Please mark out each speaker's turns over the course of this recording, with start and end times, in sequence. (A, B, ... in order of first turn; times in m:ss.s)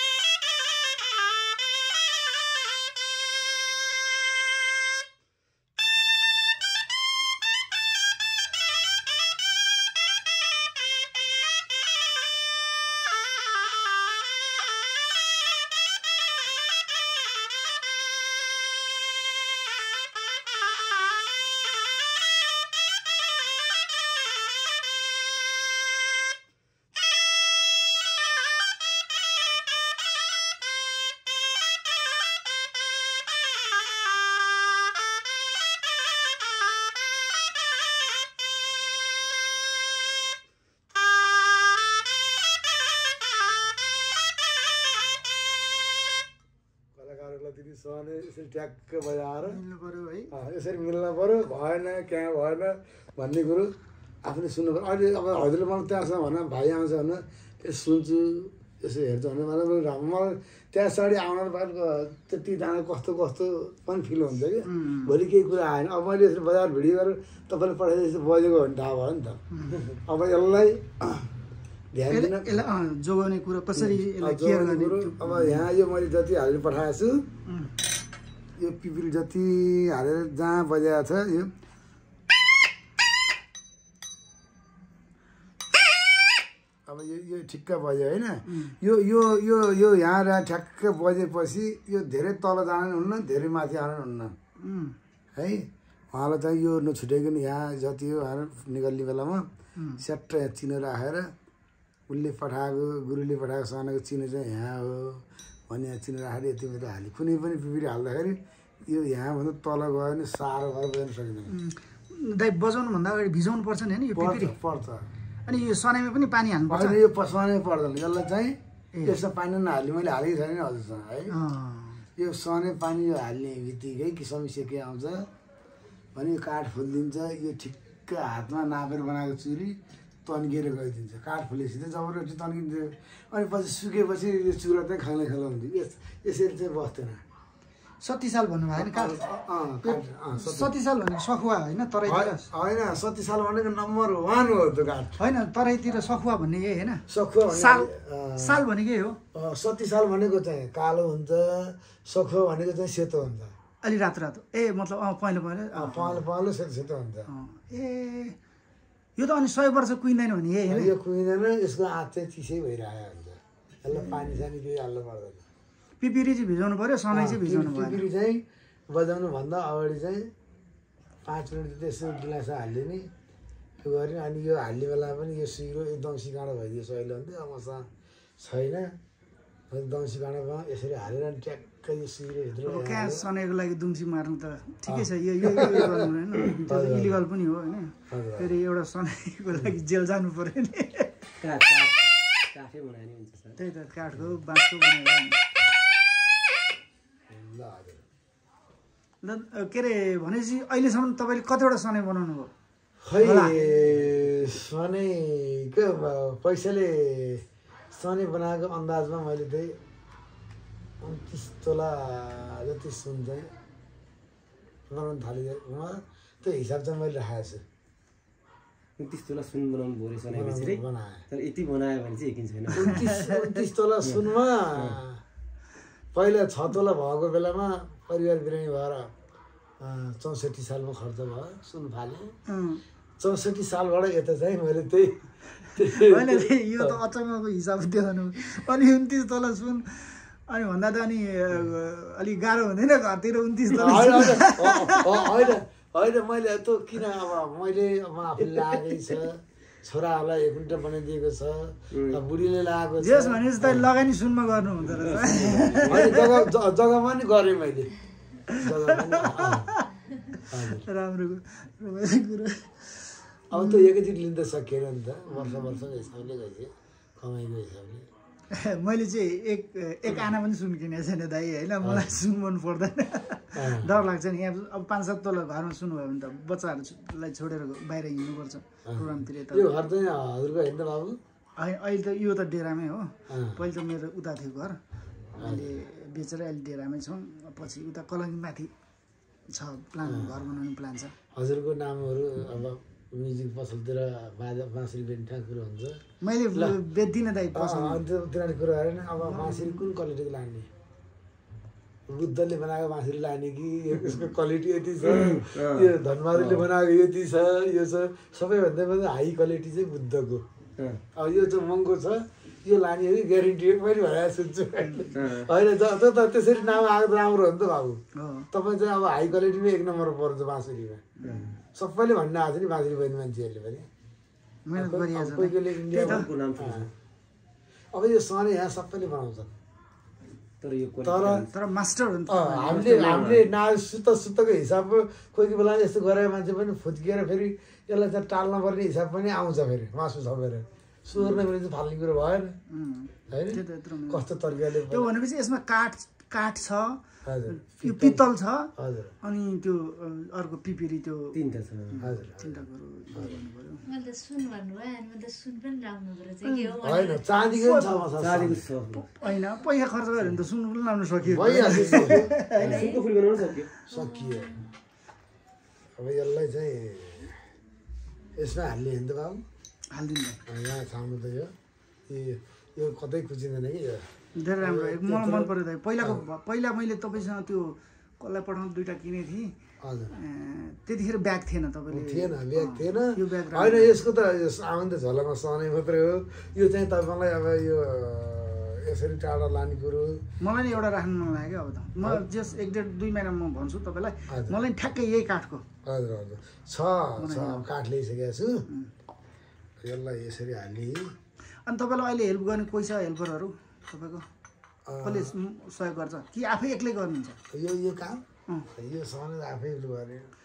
0:47.0-0:49.6 A
0:49.4-0:50.3 B
0:50.3-1:09.4 A
1:04.7-1:05.2 B
1:09.5-1:09.8 B
1:10.0-1:11.3 A
1:11.9-1:12.6 A
1:12.1-1:15.7 B
1:13.7-1:17.3 A
1:17.5-1:17.8 B
1:18.6-1:21.5 A
1:26.9-1:34.4 A
1:28.5-1:28.8 B
1:34.6-1:35.0 B
1:35.4-1:39.5 A
1:39.8-1:40.0 B
1:40.0-1:41.3 A
1:42.1-1:51.5 A
1:51.5-1:54.6 B
1:54.2-1:55.1 A
1:55.5-1:57.0 B
1:56.7-2:01.4 A
2:01.3-2:02.1 B
2:02.2-2:05.3 A
2:06.2-2:17.2 A
2:18.0-2:22.5 B
2:18.8-2:20.7 A
2:22.0-2:25.2 A
2:25.2-2:29.2 B
2:27.1-2:28.7 A
2:29.3-2:33.5 A
2:33.8-2:36.2 B
2:35.7-2:37.3 A
2:37.3-2:38.4 B
2:39.2-2:40.9 B
2:40.7-2:45.4 A
2:46.0-2:48.1 B
2:47.1-2:50.3 A
2:51.2-2:53.1 A
2:53.8-2:57.9 A
2:58.4-2:59.0 A
2:59.7-3:03.3 A
3:02.6-3:11.1 B
3:04.9-3:07.2 A
3:08.1-3:08.5 A
3:11.4-3:13.6 C
3:13.6-3:15.4 B
3:17.3-3:18.0 A
3:19.2-3:22.5 B
3:23.0-3:29.8 A
3:23.2-3:23.6 B
3:31.0-3:33.5 A
3:34.9-3:37.6 A
3:39.0-3:43.0 C
3:40.3-3:41.3 A
3:42.7-3:45.2 A
3:42.8-3:43.6 B
3:46.1-3:49.1 A
3:49.8-3:52.3 A
3:52.5-3:52.8 B
3:53.2-3:57.0 A
3:55.8-4:05.4 B
4:03.7-4:13.9 A
4:11.9-4:12.2 C
4:13.0-4:16.3 B
4:14.9-4:16.3 C
4:15.8-4:17.9 A
4:18.5-4:24.0 B
4:18.6-4:19.7 A
4:20.5-4:20.9 A
4:23.5-4:28.1 A
4:25.4-4:25.7 B
4:28.5-4:39.7 B
4:31.8-4:32.2 A
4:33.6-4:33.9 A
4:38.8-4:41.2 A
4:41.6-4:44.8 B
4:43.3-4:43.6 A
4:45.4-4:45.7 A
4:45.4-4:48.7 B
4:49.5-4:51.2 B
4:50.0-4:50.5 A
4:51.3-4:56.0 A
4:56.2-4:58.0 B
4:57.6-5:00.7 A
4:59.2-4:59.9 B
5:02.1-5:10.4 A
5:05.0-5:06.7 C
5:11.1-5:18.0 A
5:14.8-5:15.2 B
5:15.1-5:15.5 C
5:18.2-5:18.5 B
5:18.5-5:21.0 A
5:21.2-5:21.5 B
5:21.2-5:21.5 C
5:21.7-5:23.9 A
5:24.7-5:26.3 B
5:24.8-5:26.9 A
5:26.0-5:26.9 C
5:27.9-5:29.6 A
5:30.6-5:31.5 C
5:31.0-5:31.4 A
5:31.5-5:33.3 B
5:32.3-5:42.6 A
5:32.7-5:33.5 C
5:42.7-5:44.2 B
5:43.3-5:45.1 A
5:44.9-5:48.7 B
5:47.2-5:48.2 A
5:48.8-5:49.1 A
5:49.2-5:51.4 B
5:51.3-5:52.1 C
5:52.0-5:53.8 B
5:52.0-5:53.4 A
5:53.8-5:57.3 D
5:56.4-5:56.8 B
5:56.8-5:58.7 A
5:57.5-5:58.1 B
5:58.2-5:59.1 C
5:58.9-6:02.9 B
6:01.2-6:02.9 A
6:01.9-6:03.7 C
6:02.6-6:03.0 D
6:03.9-6:04.6 A
6:03.9-6:04.6 D
6:06.0-6:07.4 A
6:08.4-6:09.4 A
6:09.9-6:10.4 B
6:10.5-6:11.5 A
6:12.1-6:14.1 A
6:14.4-6:19.5 B
6:14.6-6:16.2 A
6:19.8-6:20.1 A
6:20.1-6:24.0 B
6:21.9-6:30.2 A
6:30.4-6:35.6 B
6:34.3-6:34.6 A
6:35.8-6:38.6 A
6:37.2-6:37.7 B
6:39.8-6:41.2 A
6:41.7-6:44.2 B
6:44.9-6:45.4 A
6:45.0-6:47.4 B
6:47.5-6:50.3 A